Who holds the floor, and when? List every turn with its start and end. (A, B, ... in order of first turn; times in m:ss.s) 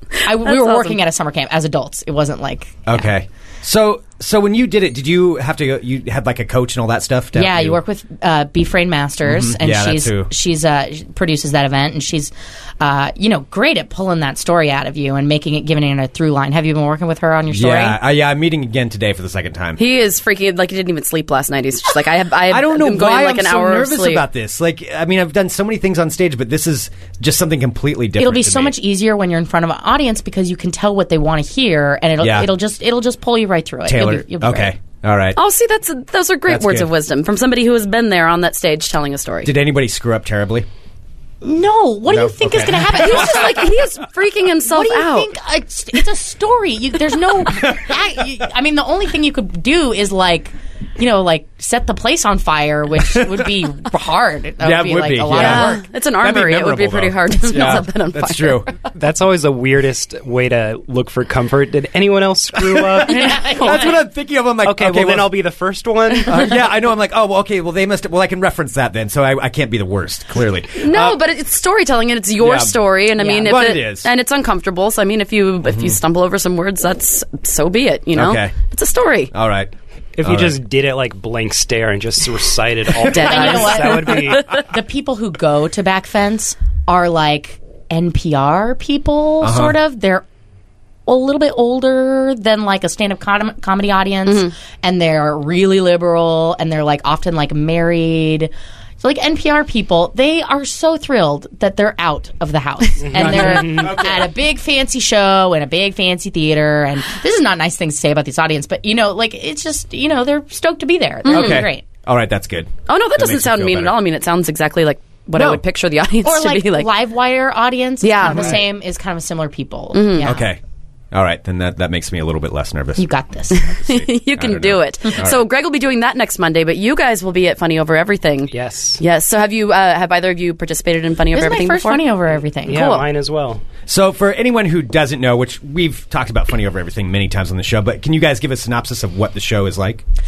0:00.2-0:03.1 A
0:00.3-0:01.0 B
0:02.9-0:07.8 C
0:07.4-0:18.0 A
0:09.2-0:10.3 C
0:17.5-0:19.8 C
0:19.8-0:24.2 B
0:22.5-0:28.8 C
0:28.2-0:34.8 A
0:32.2-0:32.5 C
0:33.8-0:35.4 C
0:35.4-0:39.5 B
0:36.5-0:36.9 C
0:39.4-0:40.7 C
0:41.4-0:43.6 A
0:42.1-0:43.6 C
0:42.9-0:45.3 B
0:44.7-0:55.8 A
0:54.6-0:58.7 C
0:55.3-0:58.8 B
0:59.0-1:03.8 D
1:03.0-1:05.4 C
1:03.1-1:04.0 A
1:04.6-1:06.6 D
1:06.3-1:11.2 C
1:10.8-1:19.3 B
1:12.4-1:14.1 C
1:13.2-1:13.6 A
1:15.6-1:16.0 C
1:18.1-1:18.5 C
1:19.3-1:20.6 C
1:20.2-1:24.6 D
1:23.1-1:24.5 B
1:23.1-1:30.2 A
1:29.4-1:29.8 C
1:31.1-1:51.8 A
1:34.3-1:34.5 B
1:43.0-1:44.0 D
1:43.1-1:44.3 C
1:51.2-1:51.7 B
1:51.3-1:54.0 C
1:52.9-1:56.9 B
1:56.2-2:00.5 A
1:58.0-1:58.6 B
1:58.2-1:58.6 D
1:59.9-2:00.3 B
2:00.2-2:00.6 C
2:01.1-2:03.1 C
2:03.0-2:03.7 A
2:03.5-2:12.0 B
2:03.7-2:05.4 C
2:08.5-2:09.0 D
2:11.3-2:13.0 A
2:12.7-2:13.6 D
2:12.7-2:13.0 B
2:13.9-2:20.0 C